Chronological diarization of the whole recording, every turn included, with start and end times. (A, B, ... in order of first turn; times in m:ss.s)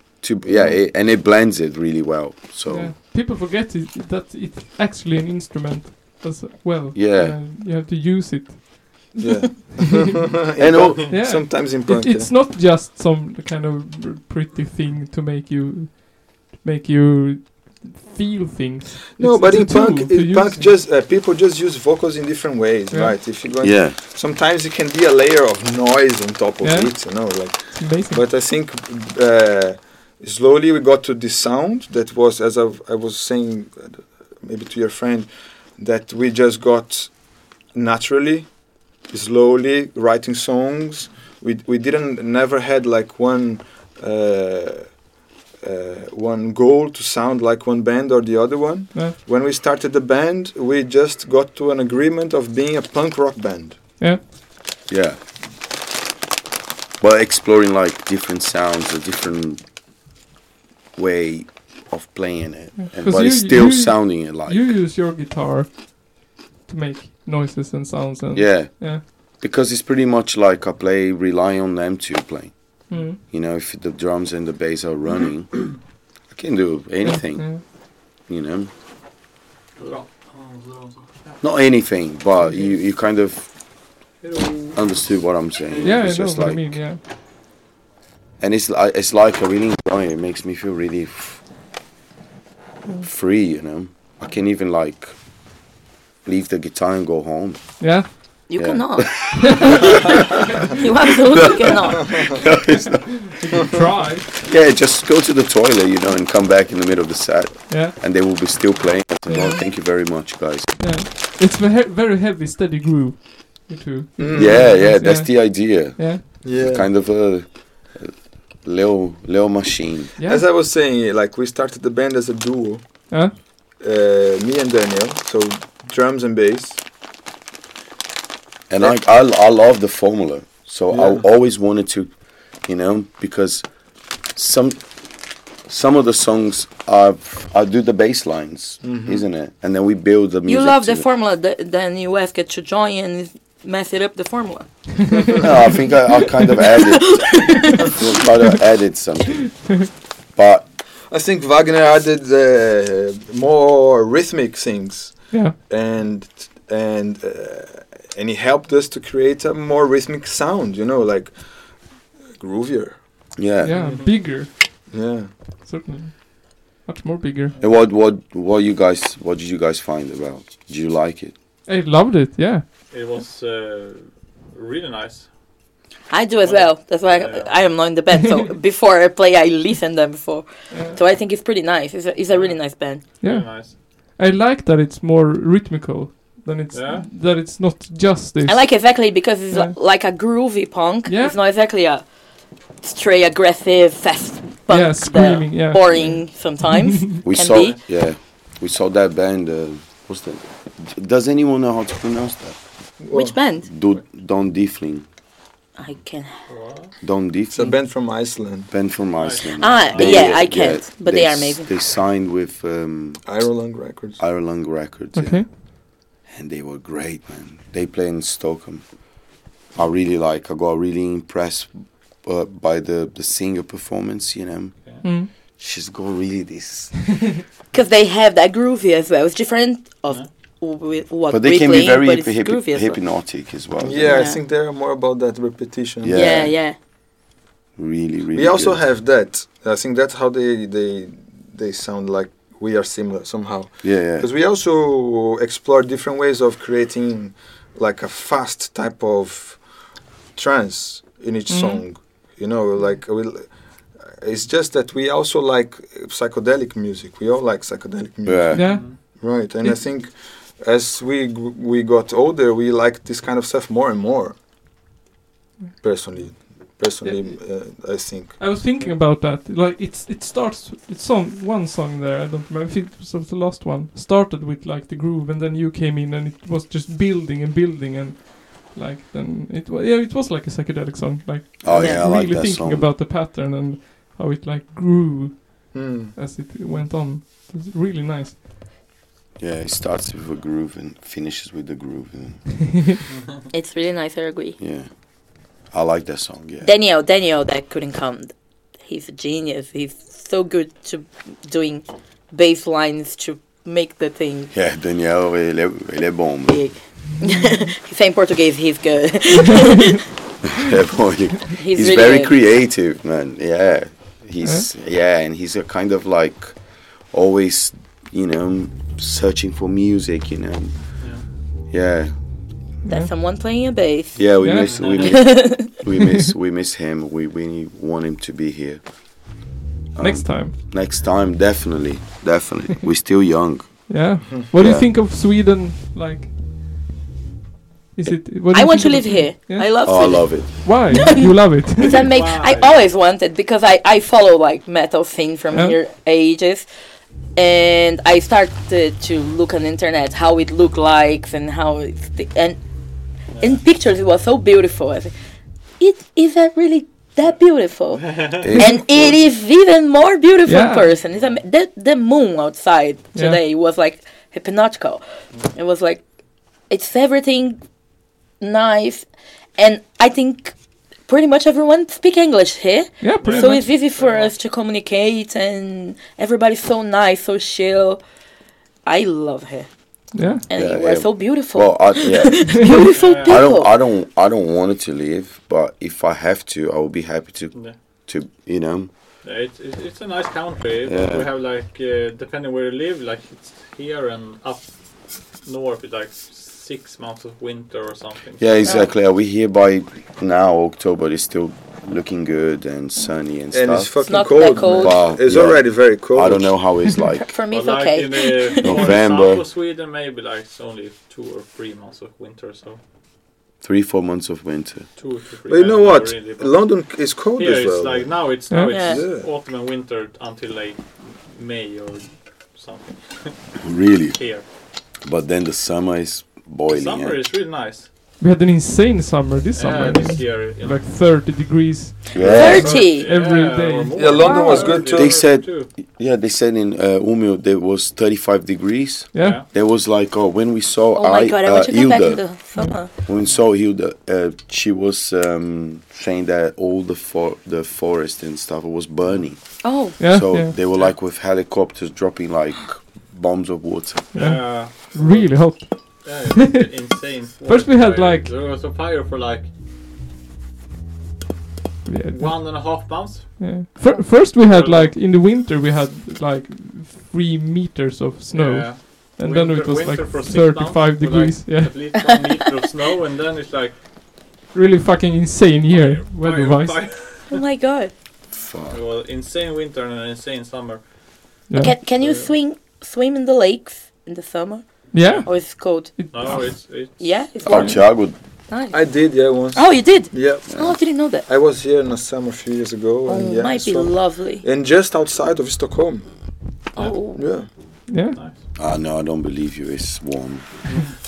0:00.2-0:02.9 A
0:00.4-0:00.8 B
0:02.7-0:09.1 C
0:06.9-0:07.4 A
0:09.1-0:12.3 B
0:09.8-0:10.2 C
0:10.6-0:11.1 A
0:11.1-0:20.8 C
0:19.2-0:45.0 B
0:22.9-0:23.2 C
0:23.6-0:24.0 A
0:26.6-0:28.2 C
0:45.6-0:53.8 B
0:54.9-0:55.2 A
0:57.0-0:59.6 A
1:01.0-1:04.8 A
1:02.8-1:09.0 C
1:08.3-1:17.6 A
1:12.9-1:13.2 C
1:17.0-1:17.6 C
1:18.1-1:18.7 A
1:19.8-1:21.4 D
1:21.4-1:23.5 A
1:24.2-1:24.8 D
1:24.7-1:26.9 A
1:25.8-1:27.0 C
1:28.4-1:31.4 A
1:33.0-1:35.2 A
1:36.2-1:40.0 A
1:37.8-1:38.6 C
1:38.5-1:39.9 E
1:39.4-1:40.0 C
1:40.8-1:42.1 E
1:41.4-1:43.3 A
1:42.7-1:44.4 C
1:44.4-1:50.9 A
1:47.7-1:48.0 C
1:49.3-1:49.6 C
1:50.8-1:56.4 C
1:54.2-1:54.8 B
1:54.3-2:00.1 A
1:56.4-1:56.9 B
2:00.2-2:00.5 C
2:00.2-2:03.3 B
2:03.1-2:03.4 C
2:03.8-2:06.8 B
2:08.7-2:13.7 A
2:10.9-2:11.2 B
2:14.3-2:14.8 A
2:15.6-2:21.1 A
2:18.8-2:19.2 B
2:20.5-2:25.4 E
2:25.4-2:30.7 A
2:26.5-2:28.0 E
2:31.1-2:43.2 B
2:35.3-2:35.6 C
2:43.4-2:43.8 A
2:43.6-2:44.5 C
2:43.7-2:44.1 D
2:44.9-2:45.4 B
2:45.6-2:47.6 C
2:47.6-2:51.3 A
2:51.7-2:53.2 C
2:52.9-2:55.4 D
2:56.1-3:03.0 E
2:56.4-2:57.7 D
3:00.7-3:01.0 C
3:02.3-3:03.8 D
3:03.2-3:08.9 C
3:06.7-3:07.1 D
3:08.4-3:12.1 E
3:09.5-3:09.8 C
3:11.1-3:11.4 C
3:12.8-3:17.8 E
3:14.7-3:17.2 C
3:17.2-3:22.6 A
3:17.4-3:17.8 D
3:23.0-3:23.4 B
3:23.1-3:23.7 E
3:23.7-3:25.1 A
3:25.8-3:26.4 E
3:26.5-3:26.9 D
3:27.0-3:27.9 A
3:27.5-3:28.7 B
3:28.7-3:33.6 A
3:29.2-3:30.4 D
3:29.6-3:31.7 E
3:33.2-3:34.2 B
3:34.2-3:35.5 A
3:35.1-3:35.5 C
3:36.2-3:44.8 A
3:45.0-3:45.3 C
3:45.3-3:47.0 A
3:47.7-3:53.0 E
3:51.3-3:54.3 A
3:53.8-3:56.5 B
3:54.1-3:54.4 E
3:56.0-3:56.6 A
3:56.1-3:56.8 E
3:57.8-3:58.8 A
3:58.3-4:09.6 B
4:03.8-4:04.3 A
4:10.3-4:13.6 B
4:11.5-4:11.8 C
4:14.1-4:24.4 B
4:18.2-4:18.9 A
4:18.5-4:19.0 C
4:18.7-4:19.0 D
4:25.8-4:28.4 B
4:27.0-4:27.3 C
4:28.4-4:48.4 C
4:41.6-4:42.9 A
4:41.8-4:42.1 E
4:45.7-4:46.2 B
4:49.4-4:52.5 A
4:53.5-4:54.6 E
4:54.6-4:54.9 A
4:55.7-4:56.7 A
4:56.6-5:04.5 E
5:04.5-5:06.7 A
5:06.5-5:10.0 E
5:10.5-5:20.8 A
5:11.5-5:12.3 E
5:21.7-5:22.1 A
5:22.8-5:23.1 C
5:22.9-5:25.7 E
5:24.2-5:29.4 A
5:24.4-5:24.8 C
5:24.7-5:25.1 D
5:30.0-5:34.9 A
5:30.0-5:30.6 C
5:33.9-5:36.3 C
5:38.0-5:42.1 C
5:38.5-5:46.7 E
5:39.8-5:40.7 A
5:42.0-5:42.7 D
5:45.5-5:45.8 C
5:47.4-5:52.6 E
5:53.4-5:53.6 D
5:53.4-5:55.1 E
5:55.8-6:06.0 E
5:58.0-5:58.4 D
5:58.4-5:59.2 A
6:00.5-6:01.0 C
6:01.1-6:01.4 D
6:03.1-6:03.4 C
6:06.7-6:07.6 E
6:08.4-6:09.1 E
6:09.6-6:10.6 E
6:11.1-6:18.0 E
6:13.0-6:13.7 C
6:13.2-6:14.3 D
6:18.9-6:19.7 E
6:20.1-6:20.4 C
6:20.2-6:23.7 E
6:20.5-6:28.9 A
6:23.0-6:23.4 D
6:29.2-6:38.5 D
6:30.8-6:31.3 A
6:38.4-6:47.3 A
6:38.6-6:38.9 E
6:43.5-6:46.6 B
6:44.1-6:45.0 E
6:47.3-6:48.9 E
6:47.5-6:52.8 D
6:48.6-6:49.4 A
6:53.6-6:54.9 A
6:55.0-7:03.6 D
6:55.5-6:58.3 B
6:58.5-6:58.8 C
6:58.7-6:59.0 E
6:58.8-6:59.3 B
7:03.6-7:04.4 A
7:04.1-7:04.4 D
7:05.0-7:07.2 A
7:06.7-7:07.9 D
7:08.2-7:14.6 C
7:09.5-7:11.3 D
7:12.1-7:12.8 A
7:12.2-7:15.7 D
7:12.2-7:13.1 E
7:14.0-7:15.2 B
7:14.2-7:14.7 E
7:14.9-7:34.2 A
7:19.1-7:19.4 C
7:19.2-7:19.4 D
7:21.0-7:22.9 E
7:29.6-7:30.0 E
7:30.0-7:30.5 C
7:34.1-7:36.7 C
7:34.1-7:39.5 D
7:37.4-7:38.3 C
7:41.9-7:52.0 C
7:42.1-7:45.0 D
7:48.3-7:53.8 D
7:52.0-7:52.4 E
7:54.5-7:56.9 C
7:55.7-7:57.4 D
7:57.3-7:57.9 E
7:58.3-7:58.8 A
7:58.7-8:00.8 D
8:01.5-8:01.8 C
8:01.6-8:11.2 E
8:01.8-8:02.3 D
8:04.9-8:06.6 C
8:05.0-8:05.3 D
8:06.1-8:07.2 D
8:07.4-8:08.2 A
8:08.7-8:10.5 B
8:10.5-8:10.8 A
8:11.3-8:16.1 B
8:13.1-8:14.4 E
8:16.8-8:17.2 E
8:17.2-8:17.5 B
8:17.9-8:18.2 C
8:18.2-8:18.4 D
8:18.6-8:20.5 A